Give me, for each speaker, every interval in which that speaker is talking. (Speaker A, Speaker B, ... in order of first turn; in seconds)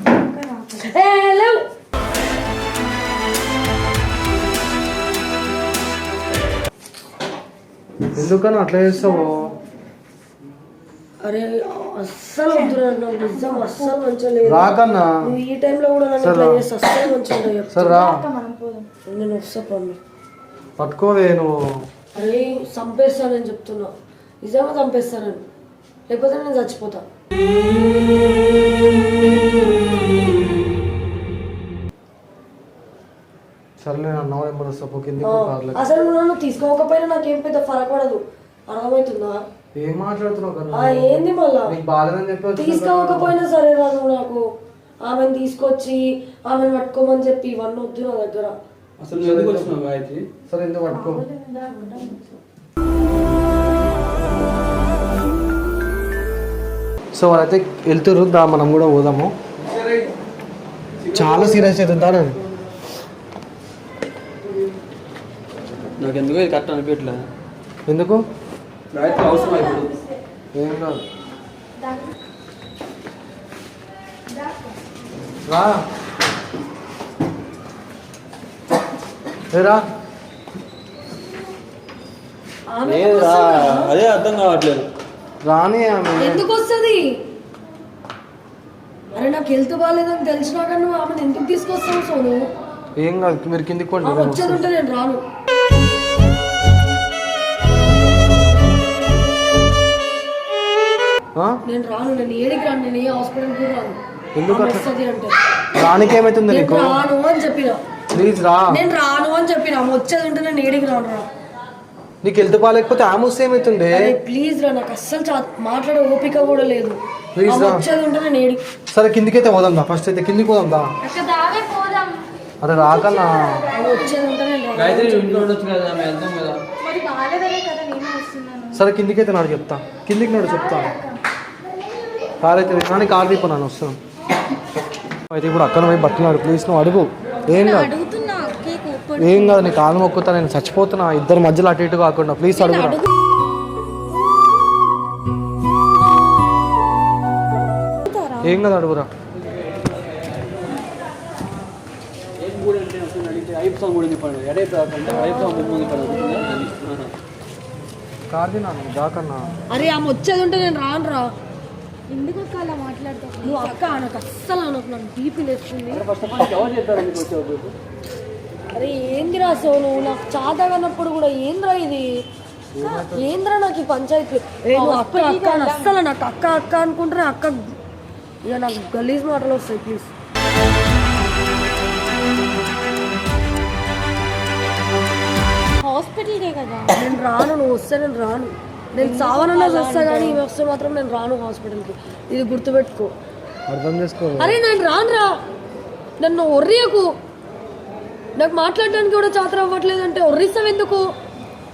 Speaker A: 0.2-0.8, 12.5-14.0, 17.9-18.9, 50.9-52.4, 69.2-69.9, 71.8-72.1, 74.3-74.7, 121.0-122.2, 122.8-124.1, 126.8-128.8, 130.5-131.2, 137.5-139.8, 142.5-143.1, 148.1-148.6, 162.1-164.1, 174.7-176.0, 185.8-187.0, 189.0-190.4
Speaker B: 0.8-1.6, 11.2-18.0, 19.1-20.0, 22.1-23.9, 24.4-25.4, 26.1-27.0, 35.2-39.4, 40.7-41.8, 42.6-44.4, 45.0-48.5, 82.7-83.9, 86.2-87.1, 89.2-92.5, 94.0-95.2, 101.7-104.0, 104.5-105.4, 106.5-107.8, 108.7-111.3, 113.9-118.6, 123.7-125.5, 159.7-161.3, 163.4-166.1, 168.7-172.1, 172.8-177.7, 178.4-180.1, 186.9-193.1, 194.4-195.3, 196.2-197.1, 198.4-201.1
Speaker C: 8.2-9.5, 14.5-15.1, 16.2-16.6, 17.7-18.2, 20.8-21.6, 33.8-35.8, 39.8-43.4, 49.1-49.7, 50.5-51.3, 57.1-59.3, 61.1-62.4, 67.9-68.2, 70.5-71.0, 75.5-75.8, 79.5-79.8, 85.5-86.4, 93.0-94.6, 104.4-104.8, 105.8-107.0, 108.1-108.8, 112.2-114.1, 117.3-117.8, 118.9-120.9, 122.6-123.7, 128.7-130.9, 132.4-134.0, 135.3-137.9, 139.2-143.0, 148.4-149.1, 158.3-159.5, 172.7-173.3, 193.7-194.6
Speaker D: 49.0-50.2, 59.6-60.0, 61.0-61.8, 66.0-67.3, 68.9-70.0, 82.9-84.9, 124.8-126.6, 152.4-157.1, 165.9-167.7